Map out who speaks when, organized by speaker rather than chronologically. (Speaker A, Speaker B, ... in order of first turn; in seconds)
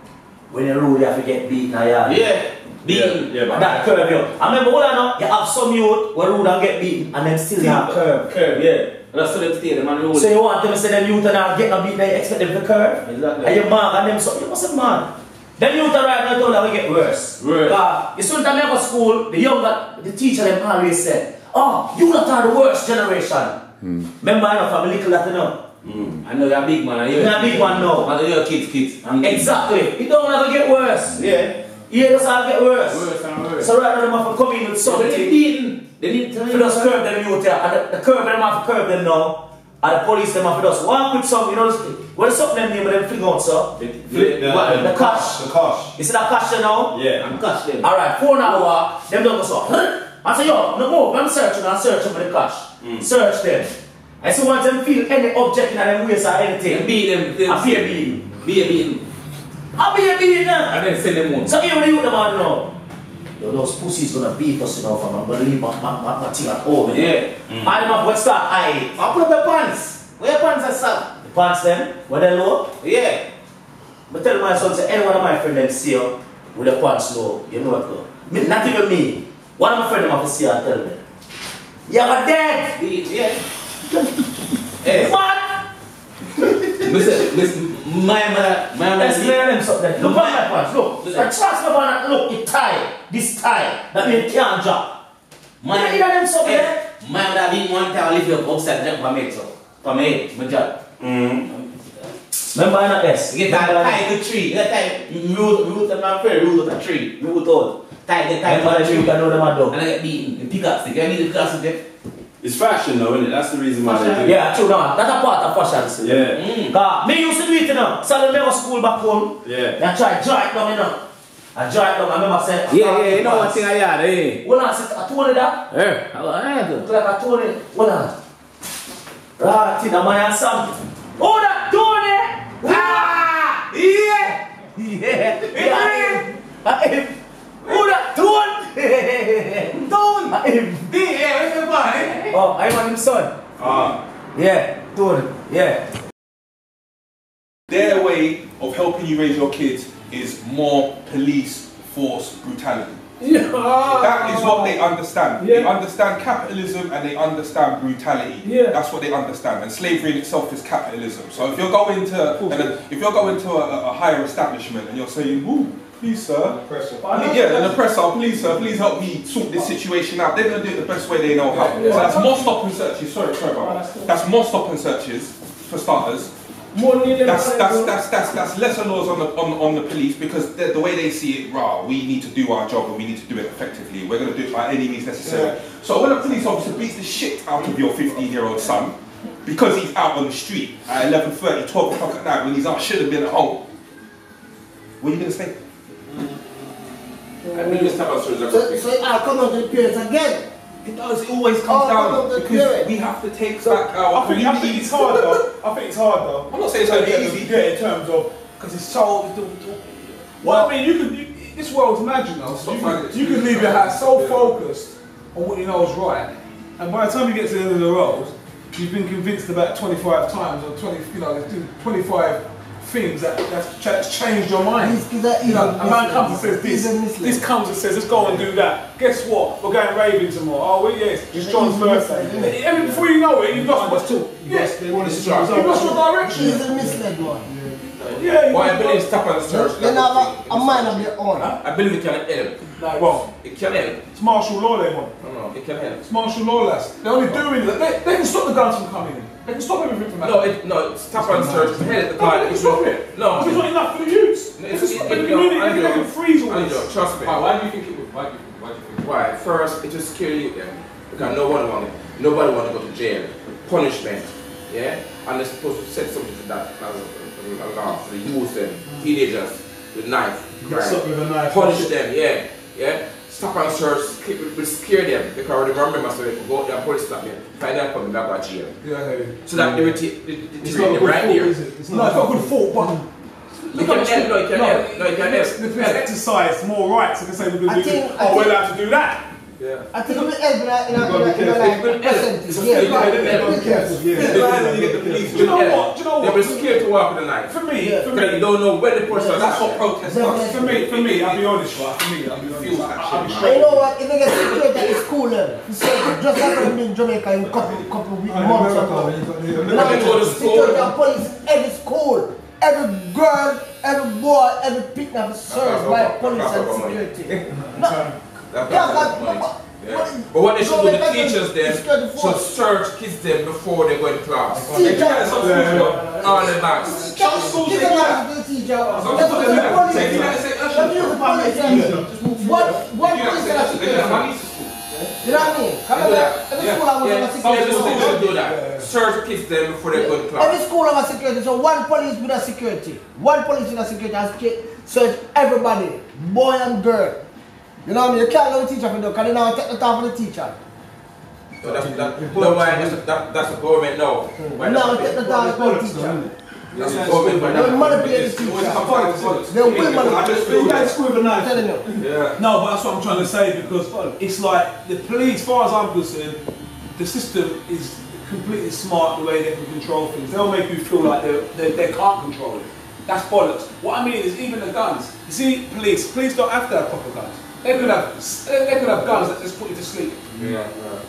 Speaker A: 0.5-2.2, 3.5-8.3, 10.1-23.6, 24.2-25.6, 27.1-28.1, 29.2-31.2, 31.9-35.4, 36.5-43.7, 44.8-45.4, 46.0-47.0, 47.8-56.9, 57.4-58.2, 59.8-60.8, 61.4-62.7, 63.4-69.0, 71.2-72.7, 74.1-81.0, 81.9-82.8, 84.8-85.6, 88.9-94.9, 95.7-96.8, 102.5-104.0, 108.5-109.7, 114.2-121.0, 121.5-123.6, 124.4-125.7, 126.8-128.2, 129.4-133.2, 134.8-139.8, 140.3-140.9, 142.3-143.3, 144.3-145.8
Speaker B: 2.0-4.0, 7.6-10.3, 13.0-13.7, 17.4-17.8, 26.1-29.7, 31.1-31.5, 32.9-33.7, 34.8-37.0, 43.8-44.9, 47.1-47.9, 56.6-59.0, 60.7-61.6, 66.9-67.9, 69.0-71.1, 72.8-73.2, 82.8-83.4, 84.8-85.2, 86.8-89.5, 90.0-90.5, 91.0-91.3, 95.6-101.6, 103.3-111.8, 113.8-114.3, 116.3-116.8, 122.7-124.4, 125.7-126.9, 132.6-134.4, 135.5-136.3, 139.9-140.3, 140.8-142.4
Speaker C: 44.1-46.0, 46.9-47.3, 112.4-114.4, 116.0-116.5, 119.5-119.8, 357.3-357.6
Speaker D: 147.7-153.0, 153.8-166.6, 167.1-176.3, 177.2-193.6, 195.0-195.6, 200.8-205.5, 206.5-207.6, 210.4-210.7, 212.5-214.5, 257.2-259.0, 291.7-291.9, 292.7-293.1, 294.1-295.9, 299.3-301.5, 302.3-303.8, 324.7-326.4, 327.2-328.2, 328.9-334.9, 336.0-336.8, 356.8-360.9, 362.0-362.4
Speaker E: 153.2-154.8, 155.4-155.7, 158.4-158.8, 176.7-178.0
Speaker F: 162.4-162.7, 166.0-167.3, 171.5-172.6, 204.1-236.9, 238.1-239.2, 242.8-243.3, 244.1-245.2, 246.0-250.5, 251.2-257.0, 270.6-271.9, 278.8-280.0, 280.6-283.1, 283.6-289.3, 291.0-296.8, 297.5-298.4, 300.5-303.6, 308.3-310.1, 324.9-326.1, 327.1-328.1, 329.1-329.7, 335.9-336.6, 338.0-338.8, 352.0-352.9, 355.3-356.3, 356.8-357.3, 358.9-361.6, 362.4-366.4, 367.0-380.5
Speaker G: 167.2-167.7, 197.5-200.5, 201.7-202.9, 224.8-227.5, 231.3-232.7, 235.0-237.5, 239.4-241.6, 287.6-288.7, 289.9-294.5, 297.7-298.2, 299.1-300.8, 303.4-318.1, 318.7-322.5, 324.6-326.0, 326.8-334.2, 335.2-338.4, 339.9-347.2, 347.9-350.6, 354.4-356.2, 357.4-361.9
Speaker H: 197.5-198.9, 235.0-235.7, 238.0-244.0, 245.2-246.0, 250.2-253.7, 254.6-257.4, 259.0-278.8, 279.4-281.5, 283.7-286.1, 295.1-299.8, 309.7-310.9, 315.5-317.3, 318.5-325.1, 326.0-327.1, 333.8-334.7, 335.9-340.6, 351.6-355.3, 356.8-358.0